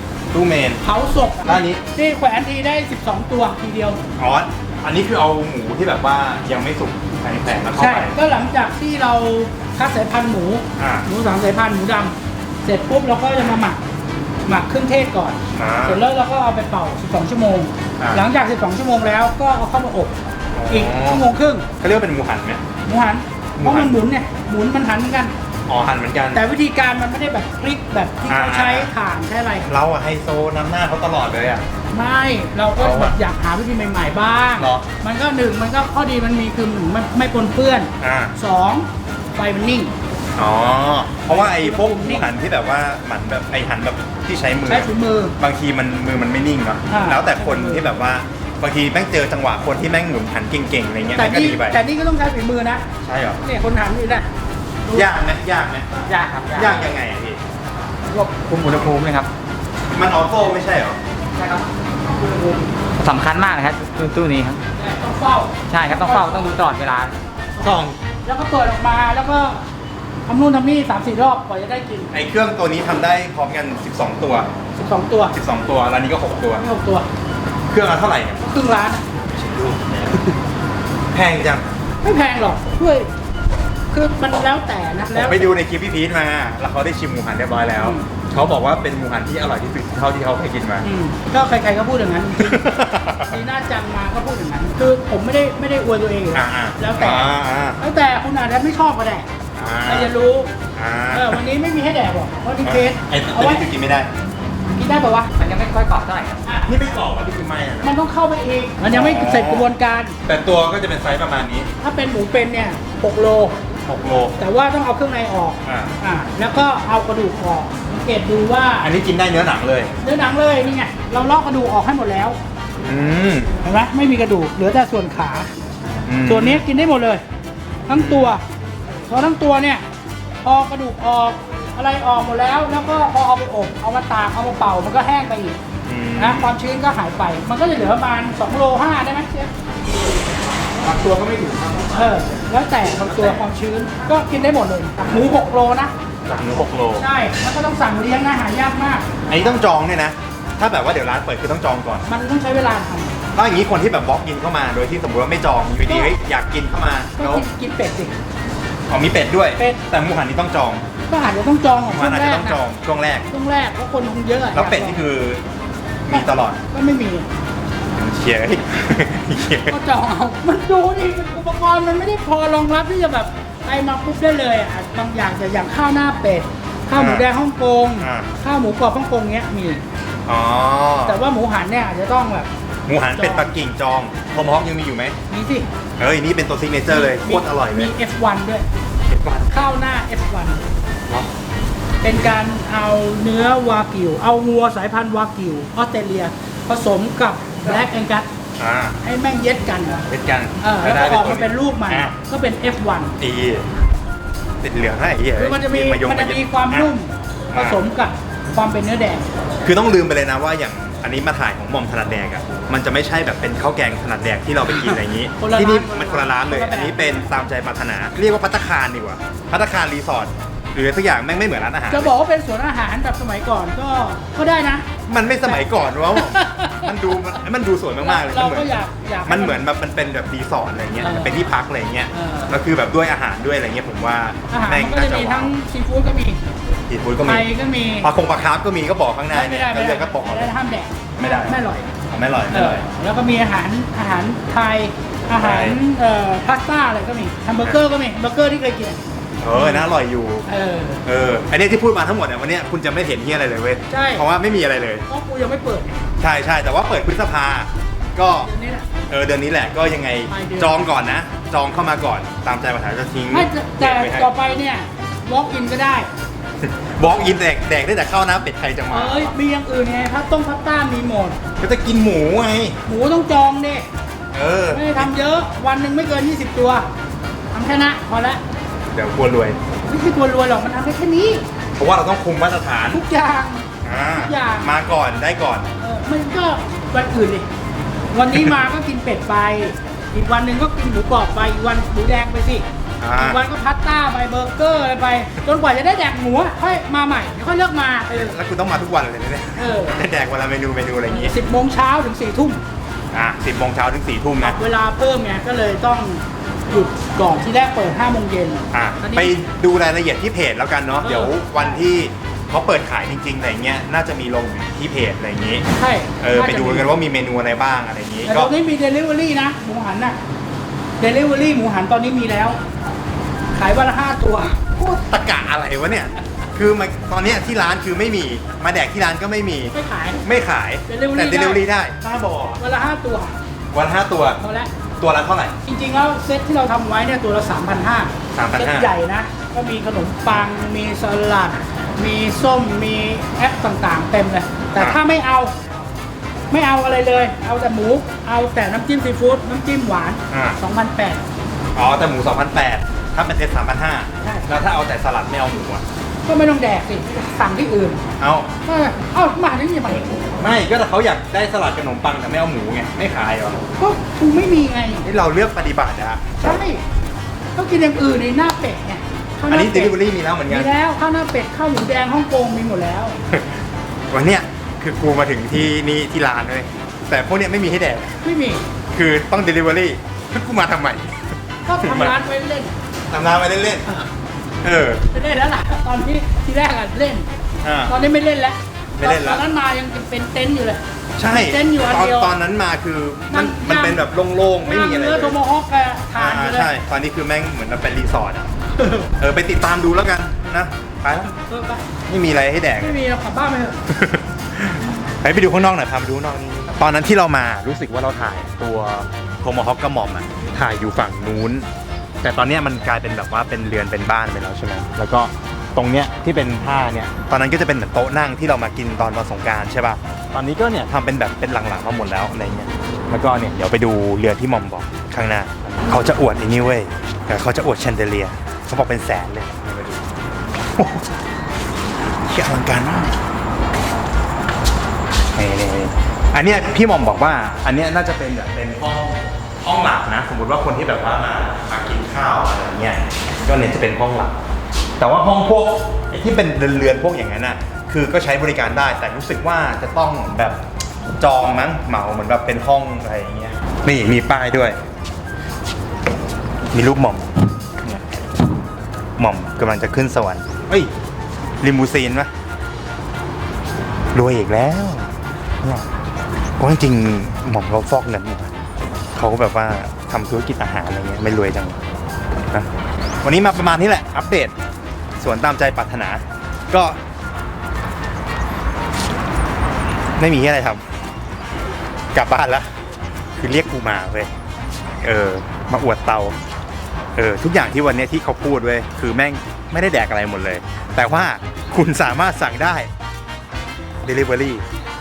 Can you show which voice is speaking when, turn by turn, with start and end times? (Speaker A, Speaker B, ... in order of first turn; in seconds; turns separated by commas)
Speaker A: 0.3-0.8, Speaker B: 0.8-4.0, Speaker A: 1.4-1.8, Speaker A: 4.2-8.2, Speaker B: 7.8-13.8, Speaker A: 10.8-11.1, Speaker B: 14.4-20.1, Speaker A: 15.5-16.0, Speaker A: 18.0-18.2, Speaker A: 20.5-21.2, Speaker B: 20.7-21.7, Speaker A: 21.8-22.6, Speaker B: 22.9-25.3, Speaker A: 23.6-23.9, Speaker A: 25.7-26.4, Speaker B: 26.3-29.7, Speaker A: 28.3-28.9, Speaker A: 29.6-31.6, Speaker B: 31.9-39.9, Speaker A: 32.8-33.1, Speaker A: 34.5-34.9, Speaker A: 38.0-38.3, Speaker A: 40.4-51.8, Speaker B: 41.2-42.3, Speaker B: 44.7-45.3, Speaker B: 46.9-47.9, Speaker B: 51.1-52.8, Speaker A: 53.0-53.4, Speaker B: 53.4-54.3, Speaker A: 54.9-55.9, Speaker C: 56.0-56.9, Speaker A: 56.5-57.4, Speaker C: 58.1-59.3, Speaker A: 59.9-61.0, Speaker C: 61.3-61.6, Speaker C: 62.8-64.6, Speaker B: 64.8-66.5, Speaker C: 65.7-67.2, Speaker A: 67.6-68.0, Speaker B: 68.2-69.6, Speaker B: 70.3-72.1, Speaker A: 72.1-74.5, Speaker B: 74.8-75.4, Speaker A: 75.3-76.6, Speaker B: 76.5-77.1, Speaker A: 77.7-78.4, Speaker B: 78.4-79.0, Speaker A: 79.3-80.4, Speaker A: 81.1-81.6, Speaker B: 82.0-83.1, Speaker B: 83.9-85.6, Speaker A: 85.1-90.9, Speaker B: 87.7-88.0, Speaker B: 90.8-99.3, Speaker A: 92.4-93.3, Speaker A: 96.3-97.8, Speaker A: 99.5-100.1, Speaker B: 99.8-100.5, Speaker A: 100.7-101.4, Speaker B: 101.1-103.6, Speaker A: 102.6-104.1, Speaker B: 104.8-105.3, Speaker C: 105.3-106.4, Speaker B: 106.4-106.7, Speaker A: 106.7-107.9, Speaker B: 107.8-110.2, Speaker A: 108.9-109.7, Speaker A: 110.2-111.7, Speaker B: 111.8-113.5, Speaker A: 113.9-114.4, Speaker B: 114.4-118.9, Speaker A: 115.6-115.9, Speaker A: 118.8-119.9, Speaker B: 120.0-122.4, Speaker A: 122.8-123.5, Speaker B: 123.6-125.5, Speaker A: 126.0-126.6, Speaker B: 126.2-127.2, Speaker B: 127.9-128.4, Speaker A: 127.9-128.4, Speaker B: 129.1-129.8, Speaker B: 130.4-135.6, Speaker A: 135.8-136.5, Speaker B: 136.2-139.5, Speaker A: 140.8-142.3, Speaker B: 141.9-145.9, Speaker A: 142.8-143.4, Speaker A: 146.3-147.1, Speaker B: 146.9-149.2, Speaker A: 149.3-152.0, Speaker B: 152.1-153.2, Speaker A: 153.3-157.4, Speaker B: 155.8-156.1, Speaker B: 157.2-158.1, Speaker A: 158.9-160.8, Speaker B: 161.1-162.6, Speaker A: 161.8-163.3, Speaker B: 163.3-165.0, Speaker A: 164.5-165.4, Speaker A: 166.1-166.6, Speaker B: 166.1-167.3, Speaker A: 167.9-169.7, Speaker B: 169.7-179.8, Speaker A: 176.9-177.3, Speaker A: 178.0-178.3, Speaker A: 180.2-181.2, Speaker B: 181.0-182.5, Speaker A: 182.9-185.2, Speaker B: 183.1-183.5, Speaker B: 185.3-185.7, Speaker A: 186.0-187.9, Speaker B: 186.9-188.6, Speaker A: 189.1-189.5, Speaker B: 189.5-190.6, Speaker B: 192.0-198.3, Speaker A: 198.6-199.0, Speaker B: 199.0-200.0, Speaker A: 200.0-202.1, Speaker B: 200.6-203.2, Speaker A: 203.2-203.7, Speaker A: 204.6-206.9, Speaker B: 205.3-209.3, Speaker A: 207.5-207.8, Speaker A: 209.6-222.1, Speaker B: 214.7-217.3, Speaker B: 221.9-227.4, Speaker A: 225.1-228.7, Speaker B: 228.0-229.6, Speaker A: 229.2-235.5, Speaker B: 231.0-231.5, Speaker B: 232.1-232.5, Speaker B: 234.5-236.4, Speaker A: 236.9-237.4, Speaker B: 237.2-238.1, Speaker A: 238.0-240.5, Speaker B: 239.3-241.9, Speaker A: 241.2-241.6, Speaker A: 242.1-242.8, Speaker B: 242.5-249.9, Speaker A: 245.3-245.8, Speaker A: 249.4-250.4, Speaker B: 250.5-251.0, Speaker A: 251.0-255.0, Speaker B: 253.9-254.2, Speaker B: 255.1-256.0, Speaker A: 256.2-258.5, Speaker B: 258.4-258.9, Speaker A: 259.1-264.3, Speaker B: 260.3-260.9, Speaker B: 263.3-266.1, Speaker A: 266.6-269.3, Speaker B: 268.9-271.4, Speaker A: 271.6-272.8, Speaker B: 272.9-273.9, Speaker A: 274.3-275.1, Speaker B: 274.7-276.9, Speaker B: 277.5-278.4, Speaker A: 278.9-279.6, Speaker B: 279.8-281.4, Speaker A: 281.8-283.0, Speaker B: 282.9-284.9, Speaker A: 283.8-285.7, Speaker B: 285.8-287.4, Speaker B: 288.1-298.4, Speaker A: 293.0-293.4, Speaker A: 298.1-301.3, Speaker B: 299.6-300.0, Speaker B: 301.1-302.6, Speaker A: 303.1-304.6, Speaker B: 304.4-309.4, Speaker A: 308.7-315.6, Speaker B: 311.0-311.8, Speaker B: 315.8-316.9, Speaker A: 316.2-318.5, Speaker B: 318.2-320.2, Speaker B: 321.0-322.6, Speaker B: 323.5-324.6, Speaker A: 324.8-332.6, Speaker B: 329.7-330.3, Speaker B: 330.9-331.7, Speaker B: 332.6-333.3, Speaker A: 333.7-334.4, Speaker B: 334.4-334.7, Speaker A: 335.0-335.5, Speaker B: 335.6-345.5, Speaker A: 338.3-338.9, Speaker B: 346.5-351.2, Speaker A: 350.3-350.6, Speaker A: 351.7-355.8, Speaker B: 354.2-354.5, Speaker B: 356.2-358.0, Speaker A: 358.2-358.5, Speaker B: 358.6-360.2, Speaker A: 360.4-363.7, Speaker B: 363.8-365.0, Speaker A: 365.0-366.6, Speaker B: 366.4-366.8, Speaker B: 367.5-373.1, Speaker A: 369.5-370.7, Speaker A: 373.3-373.6, Speaker A: 374.1-378.2, Speaker B: 378.2-378.6, Speaker A: 378.9-382.1, Speaker B: 381.6-382.7, Speaker A: 383.1-384.1, Speaker A: 384.6-385.0, Speaker B: 385.1-387.3, Speaker A: 387.6-387.9, Speaker B: 387.9-392.4, Speaker A: 389.0-389.4, Speaker A: 391.2-395.4, Speaker B: 393.3-394.1, Speaker B: 394.6-396.7, Speaker A: 396.1-398.5, Speaker B: 398.8-399.1, Speaker A: 399.1-401.3, Speaker B: 401.1-401.9, Speaker A: 402.1-402.9, Speaker B: 402.8-403.8, Speaker A: 403.9-411.7, Speaker A: 412.2-430.0, Speaker A: 430.7-431.1, Speaker A: 432.2-433.2, Speaker A: 435.3-444.3, Speaker A: 445.0-450.6, Speaker A: 451.2-454.8, Speaker A: 456.7-457.3, Speaker A: 457.8-458.1, Speaker A: 459.2-460.9, Speaker A: 461.6-462.3, Speaker A: 464.1-465.9, Speaker A: 466.6-468.6, Speaker A: 469.1-471.8, Speaker A: 473.2-474.5, Speaker A: 475.2-477.0, Speaker A: 480.2-480.8, Speaker A: 482.1-482.6, Speaker A: 483.4-484.3, Speaker A: 485.0-486.4, Speaker A: 487.1-492.9, Speaker A: 494.0-494.6